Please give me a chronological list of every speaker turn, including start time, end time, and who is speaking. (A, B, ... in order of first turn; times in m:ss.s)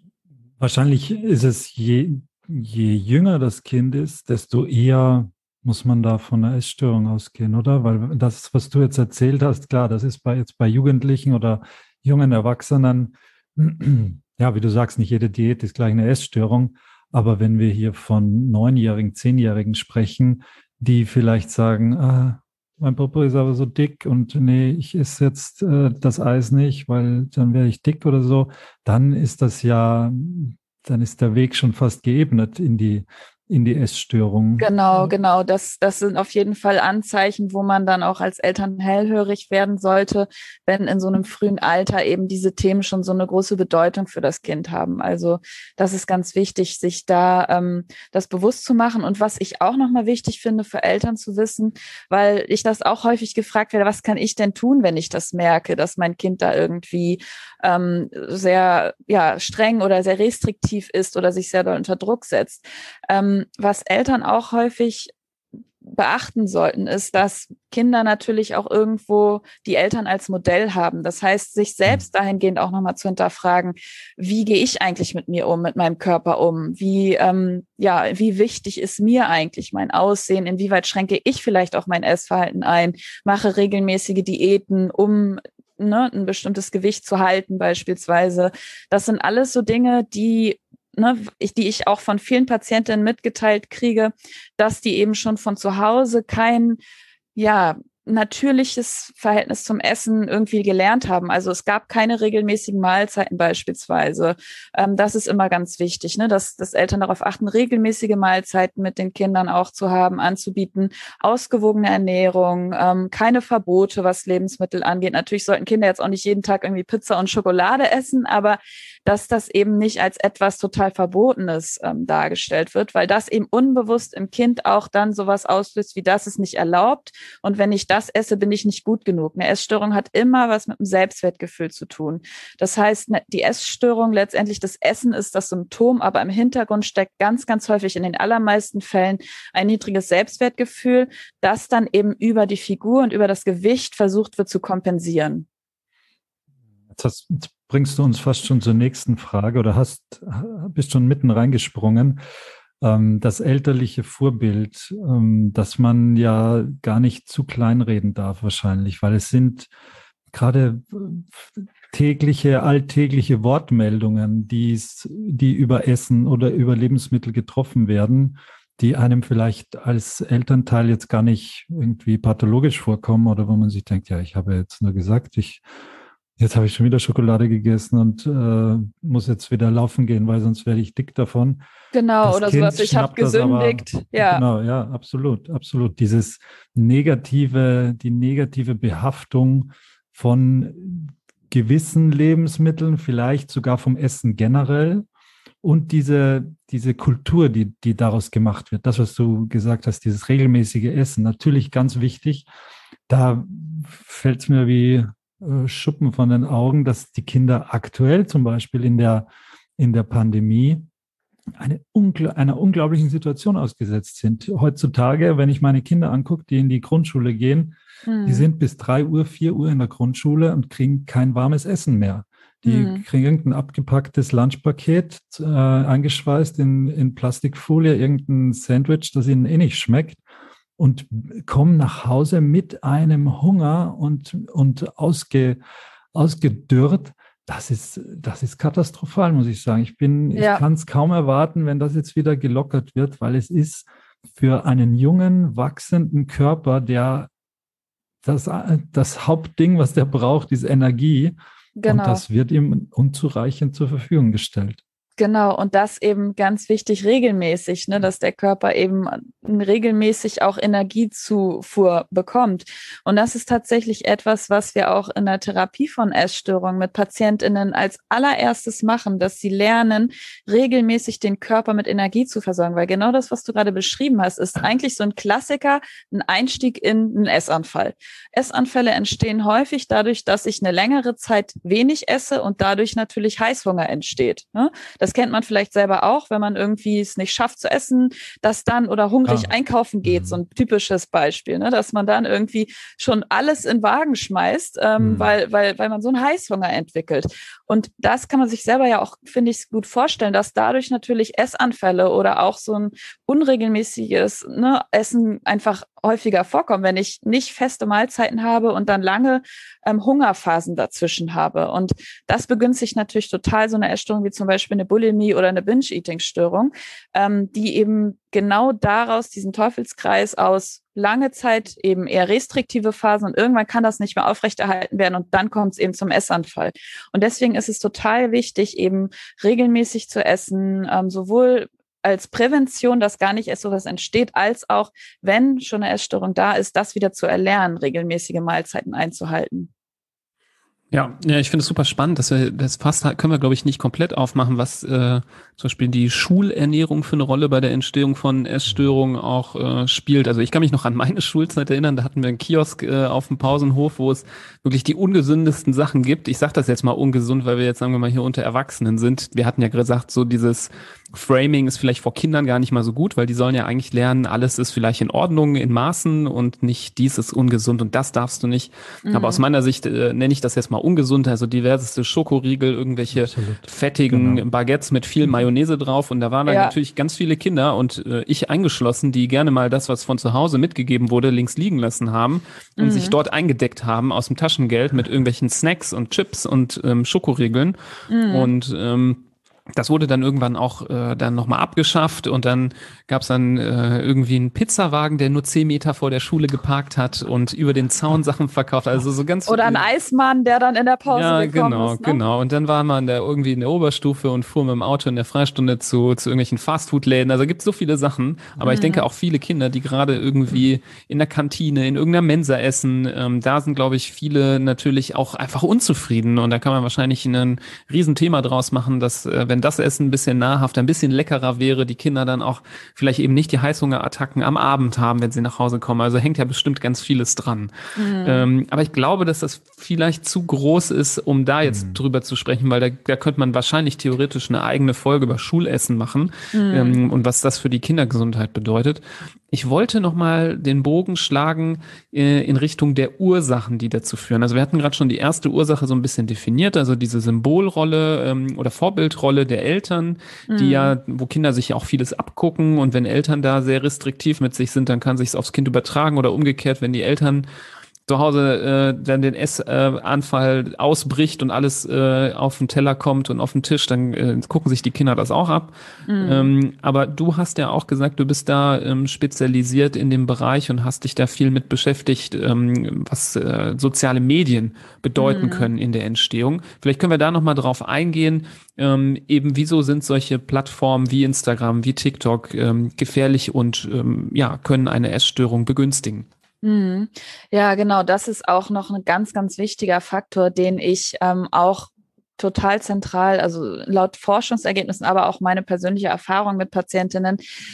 0:00.6-0:35.1 A
0:34.6-1:05.1 B
1:05.8-1:36.8 B
1:37.4-2:25.5 B
2:26.9-2:32.2 A
2:32.8-2:39.7 A
2:40.3-2:55.6 A
2:56.4-3:01.6 A
3:01.9-3:04.4 B
3:02.2-3:15.0 A
3:15.6-3:22.5 A
3:23.1-3:30.8 A
3:31.5-3:50.2 A
3:38.0-3:38.5 B
3:42.6-3:43.0 B
3:50.8-3:55.6 A
3:56.1-4:07.3 A
4:00.3-4:00.6 B
4:08.2-4:14.8 A
4:11.8-4:12.2 B
4:15.2-5:39.7 B
4:49.2-4:49.5 A
4:50.0-4:50.4 A
4:55.0-4:55.3 A
5:40.9-6:27.8 C
6:09.0-6:09.4 B
6:13.1-6:14.4 A
6:16.5-6:16.7 B
6:22.8-6:23.2 B
6:28.1-6:28.5 B
6:28.3-6:39.8 C
6:39.5-6:42.2 B
6:41.1-7:07.7 C
6:48.6-6:49.0 B
7:08.0-7:08.5 B
7:08.2-7:37.4 C
7:11.6-7:12.0 A
7:16.5-7:17.0 B
7:30.5-7:30.9 B
7:38.1-8:06.3 C
7:46.1-7:46.5 B
7:55.2-7:55.7 B
8:06.6-8:17.4 B